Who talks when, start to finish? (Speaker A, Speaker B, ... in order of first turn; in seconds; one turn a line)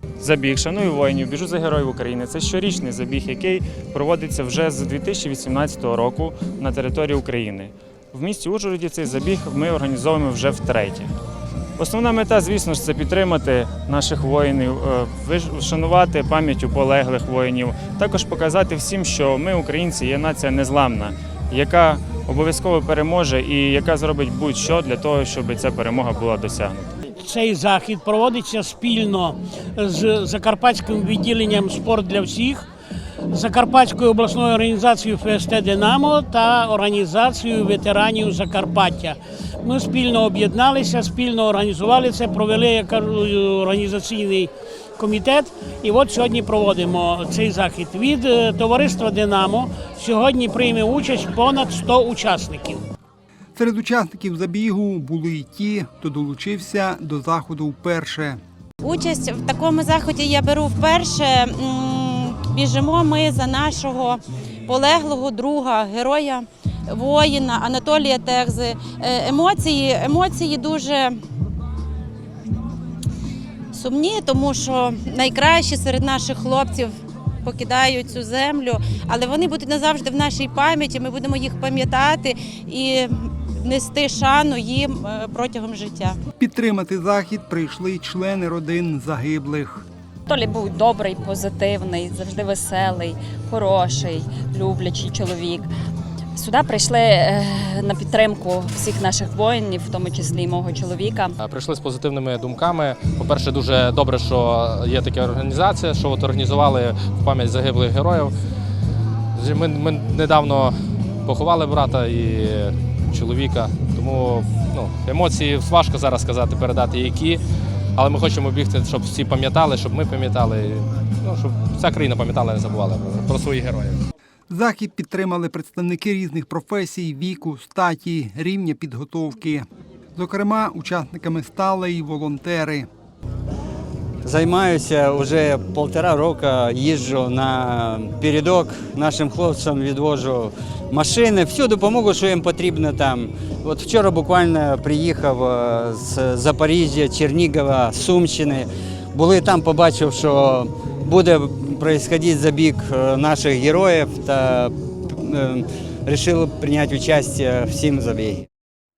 Speaker A: 0.2-11.1
Speaker A: 11.8-26.9
Speaker B: 27.1-32.7
Speaker B: 33.3-52.8
Speaker C: 53.6-58.4
Speaker D: 58.8-71.2
Speaker D: 73.7-86.2
Speaker C: 86.4-89.8
Speaker E: 90.3-95.7
Speaker E: 96.3-101.3
Speaker F: 101.4-108.3
Speaker F: 109.4-110.7
Speaker F: 111.3-117.4
Speaker F: 118.0-124.0
Speaker C: 124.5-132.9
Speaker G: 134.2-158.5